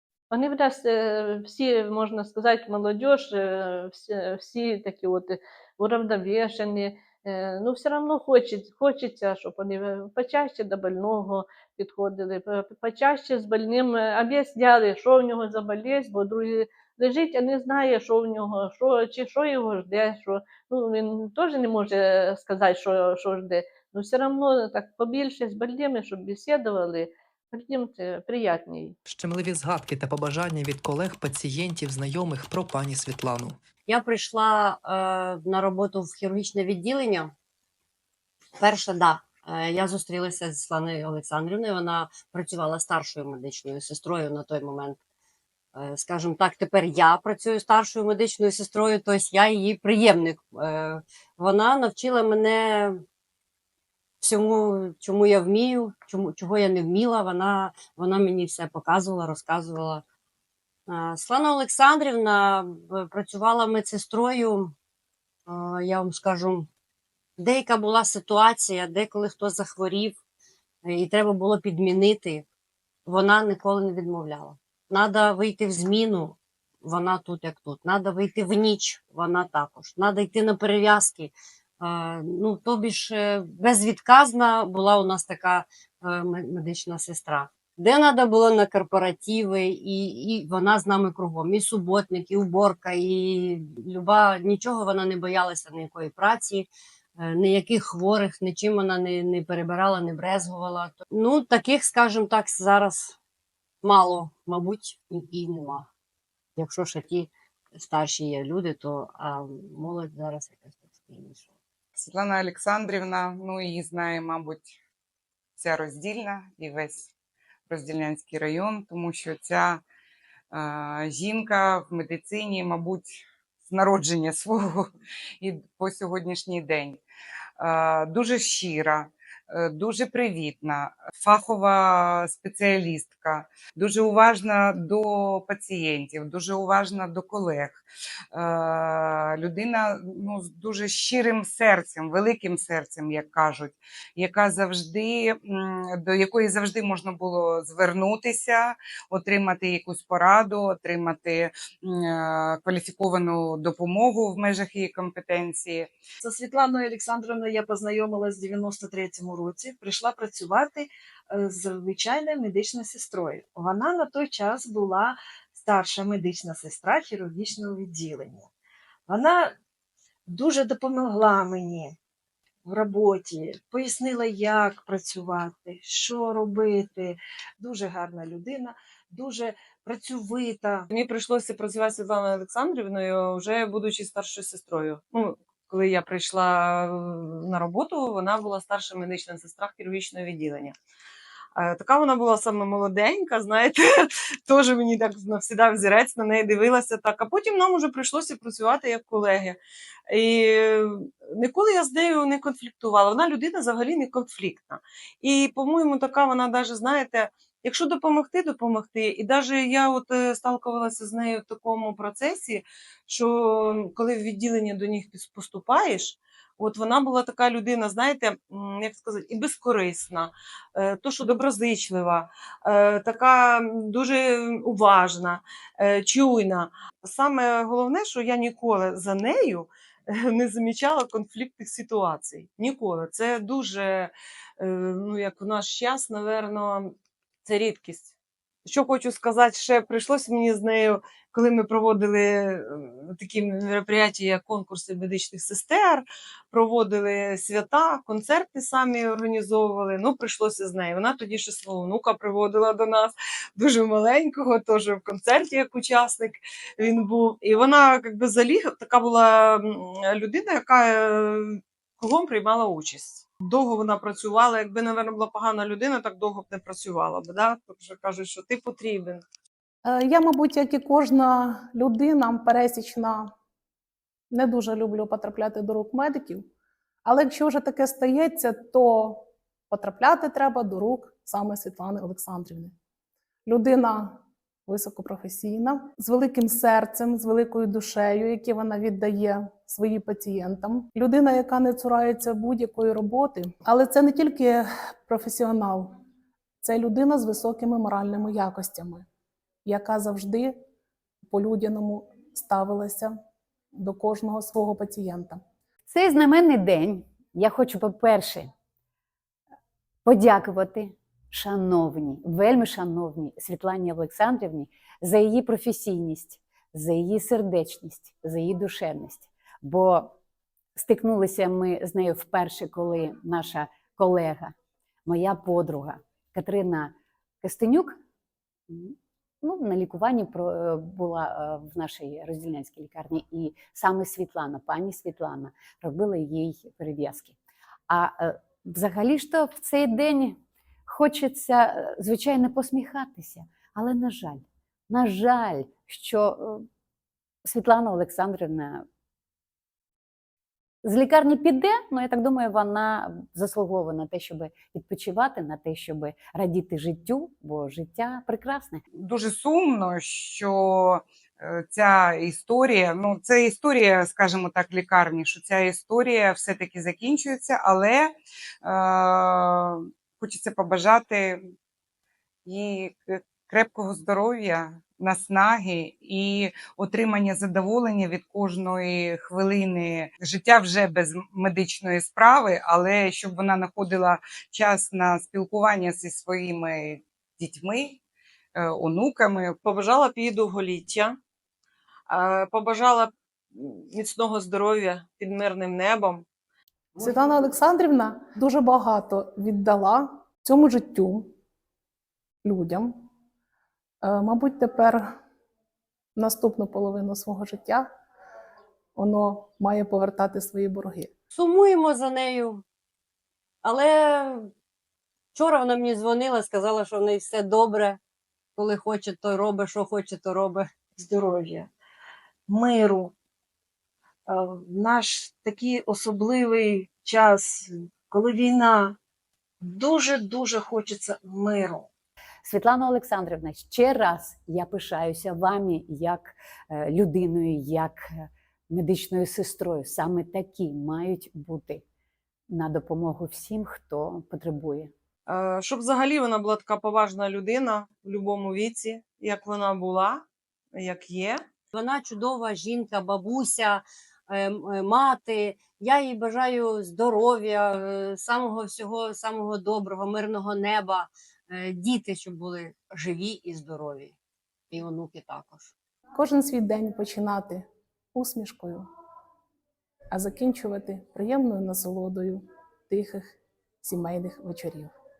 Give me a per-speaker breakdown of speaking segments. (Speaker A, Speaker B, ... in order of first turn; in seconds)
Speaker A: 0.3-29.0
Speaker B: 29.1-33.6
Speaker C: 33.9-37.3, 38.6-45.0, 45.8-53.0, 54.2-60.0, 60.9-64.7, 65.5-66.7, 67.4-70.2, 70.8-72.5, 73.1-103.2, 103.8-105.9, 106.6-111.5, 411.3-412.6, 413.6-414.5, 415.3-418.0, 418.6-420.7, 451.7-464.1, 464.7-465.7
Speaker D: 112.0-114.8, 115.6-117.1, 117.7-119.8, 120.5-127.0, 127.6-155.9, 358.9-371.5, 372.5-388.0, 388.6-389.6
Speaker E: 156.2-168.5, 169.1-169.5, 170.3-172.0, 172.6-180.9, 421.0-421.7, 422.5-423.1, 424.3-429.0, 429.6-431.9
Speaker F: 180.9-190.8, 191.6-199.6, 200.1-269.2, 389.6-391.1, 392.1-396.2, 445.3-451.4
Speaker G: 269.9-273.3, 274.3-276.5, 277.1-282.8, 283.5-295.9, 296.6-299.1, 299.6-300.6, 301.3-303.1, 303.7-305.4, 397.0-401.3, 402.4-402.9, 404.0-405.1, 406.1-407.9, 409.0-411.1, 466.1-468.9, 470.1-474.9
Speaker H: 305.9-308.5, 310.1-320.2, 320.8-324.5, 325.1-328.0, 328.7-337.4, 337.9-346.7, 347.4-348.9, 350.8-358.8, 432.4-441.8, 442.5-444.9